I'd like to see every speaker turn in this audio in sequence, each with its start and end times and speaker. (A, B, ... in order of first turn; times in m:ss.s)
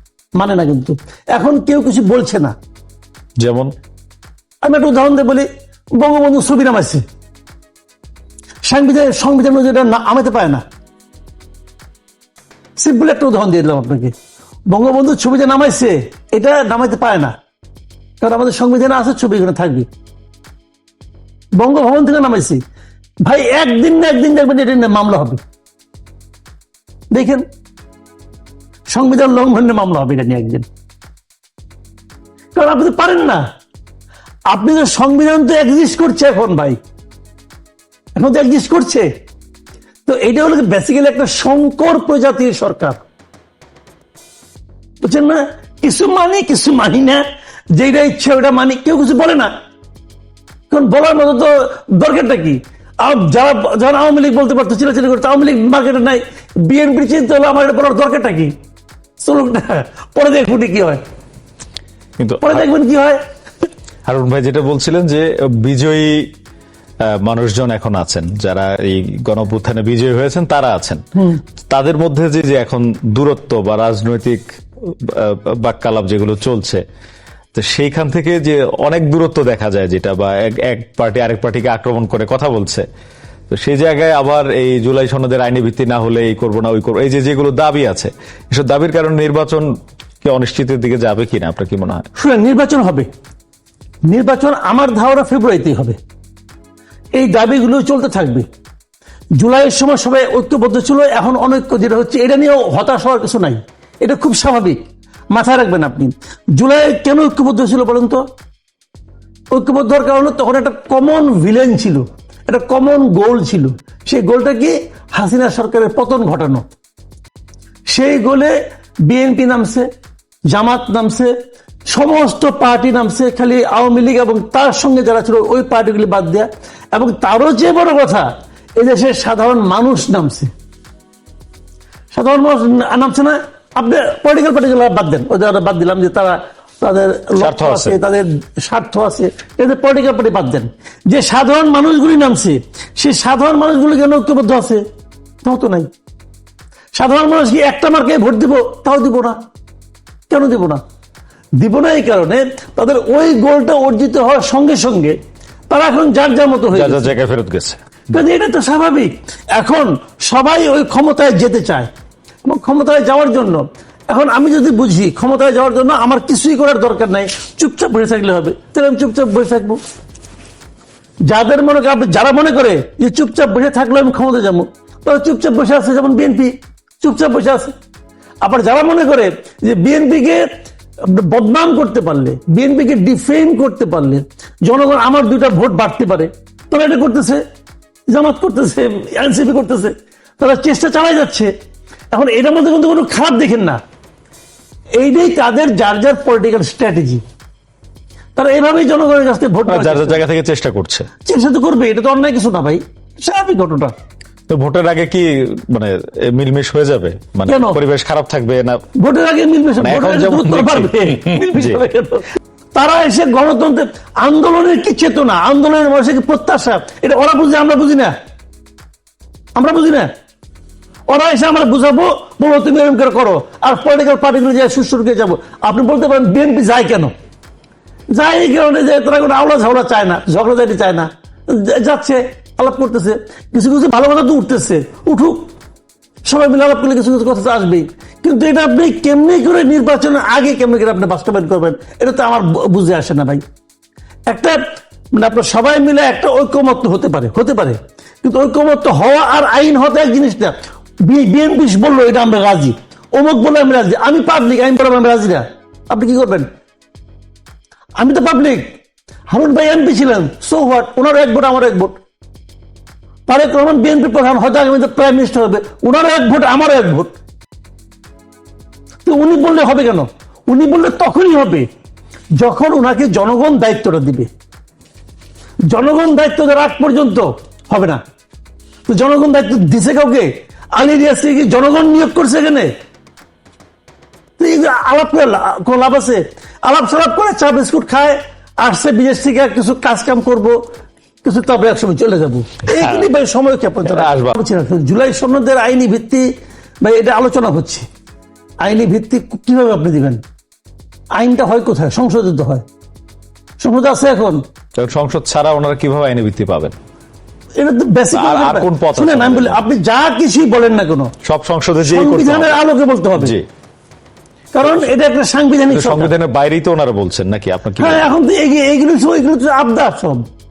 0:00.4-0:02.5 A
0:03.4-0:03.7 B
0:04.6-0:05.5 A
0:06.0-0:07.0 A
0:08.6-0:10.6 A
0:12.8-0:14.1 A
0:14.7-0:17.3 A
0:18.2-0:19.9 A
0:21.6-0:22.6 A
0:23.2-0:25.4 A
0:27.1-0:27.4 A
0:28.9-0:30.7 A
0:32.6-0:33.4 A
0:34.5-0:36.8 A
0:38.2-0:39.1 A
0:40.0-0:43.0 A
0:45.0-0:49.5 A
0:50.7-0:58.5 A
0:59.2-1:01.0 A
1:02.2-1:02.7 B
1:02.4-1:03.2 A
1:04.1-1:06.3 B
1:07.1-1:11.0 B
1:11.7-1:16.8 B
1:17.6-1:22.8 B
1:23.5-1:29.7 B
1:30.2-1:32.1 B
1:32.2-1:33.1 A
1:34.1-1:36.0 A
1:37.1-1:38.4 A
1:39.4-1:44.8 A
1:45.3-1:48.2 A
1:49.5-1:56.7 A
1:57.9-1:58.6 A
1:59.1-1:59.9 A
2:00.5-2:01.3 A
2:01.9-2:10.5 A
2:12.1-2:24.8 A
2:17.4-2:18.0 B
2:25.4-2:25.9 A
2:26.9-2:29.4 A
2:30.3-2:30.8 A
2:31.6-2:35.2 A
2:35.7-2:37.1 A
2:36.7-2:37.8 B
2:38.1-2:41.9 A
2:42.4-2:49.8 A
2:51.3-2:57.7 A
2:58.4-3:00.5 A
3:01.0-3:07.4 A
3:08.1-3:11.5 A
3:12.1-3:13.8 A
3:15.0-3:17.2 A
3:18.4-3:20.2 A
3:19.7-3:21.1 B
3:21.2-3:23.9 A
3:24.5-3:28.8 B
3:27.5-3:27.8 A
3:29.0-3:38.1 A
3:29.8-3:30.9 B
3:31.5-3:31.8 B
3:39.6-3:40.1 A
3:41.1-3:47.1 A
3:48.1-3:55.4 A
3:56.2-4:03.4 A
4:04.3-4:04.6 A
4:05.1-4:16.5 A
4:18.0-4:18.7 A
4:19.3-4:22.0 A
4:23.3-4:27.1 A
4:29.0-4:31.6 A
4:32.4-4:34.3 A
4:35.7-4:38.0 A
4:38.9-4:42.7 A
4:44.4-4:50.6 A
4:51.2-4:56.2 A
4:53.9-4:54.4 B
4:56.8-4:57.8 A
4:58.6-5:00.2 A
5:01.2-5:02.6 A
5:03.6-5:04.4 A
5:04.8-5:06.7 B
5:07.6-5:11.1 A
5:08.1-5:09.6 B
5:11.2-5:12.6 B
5:11.8-5:13.3 A
5:13.2-5:13.4 B
5:14.5-5:16.1 A
5:15.7-5:18.1 B
5:17.8-5:20.2 A